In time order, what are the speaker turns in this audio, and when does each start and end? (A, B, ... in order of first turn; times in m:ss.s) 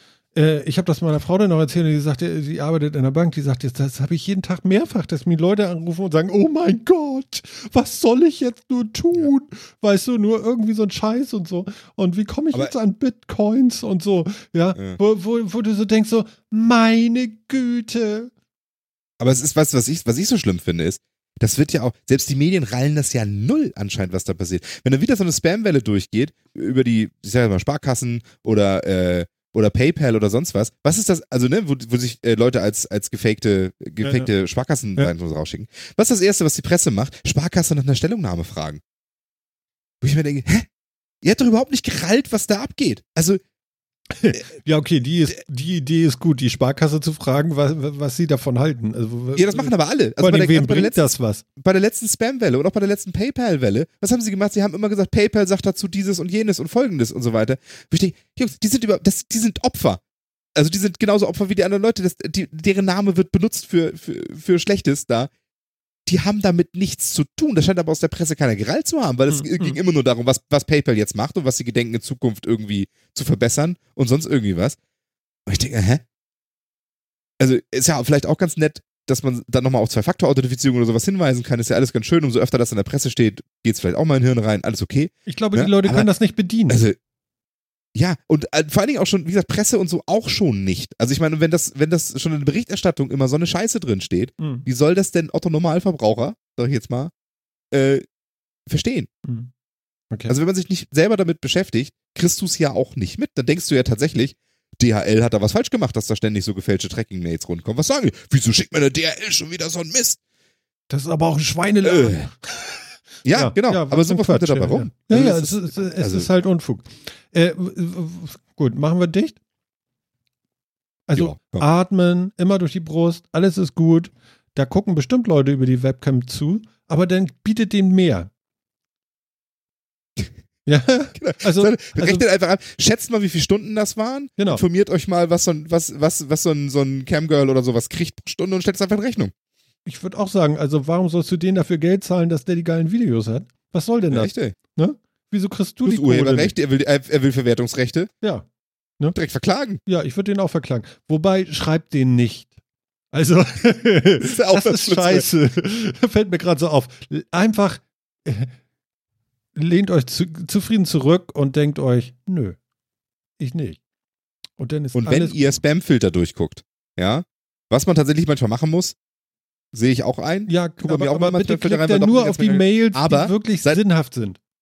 0:00.3-0:18.3 A
0:19.2-0:38.8 B
0:34.0-0:34.3 A
0:40.0-0:40.7 B
0:41.2-0:43.4 B
0:44.2-0:51.4 A
0:49.4-0:51.0 B
0:51.6-1:00.0 B
1:00.6-1:05.3 B
1:06.1-1:14.8 B
1:09.3-1:09.8 A
1:15.5-1:16.0 B
1:17.4-1:26.1 B
1:25.3-1:26.9 A
1:26.7-1:27.0 B
1:28.0-1:37.1 B
1:34.4-1:34.7 A
1:37.7-1:38.0 B
1:38.7-1:39.1 B
1:39.2-1:39.5 A
1:40.3-1:50.2 B
1:50.9-1:52.6 A
1:51.8-1:52.3 B
1:53.2-1:56.3 B
1:53.3-1:59.4 A
2:01.1-2:08.3 A
2:01.2-2:01.6 B
2:10.7-2:12.2 A
2:11.2-2:19.3 B
2:14.4-2:14.6 A
2:19.9-2:26.5 A
2:24.1-2:24.6 B
2:25.8-2:28.1 B
2:29.2-2:29.8 B
2:29.9-2:32.5 A
2:33.1-2:38.5 A
2:34.2-2:35.2 B
2:39.6-2:42.6 A
2:43.4-2:43.8 A
2:44.6-2:45.6 A
2:44.9-2:49.0 B
2:49.7-2:53.8 B
2:50.5-2:54.4 A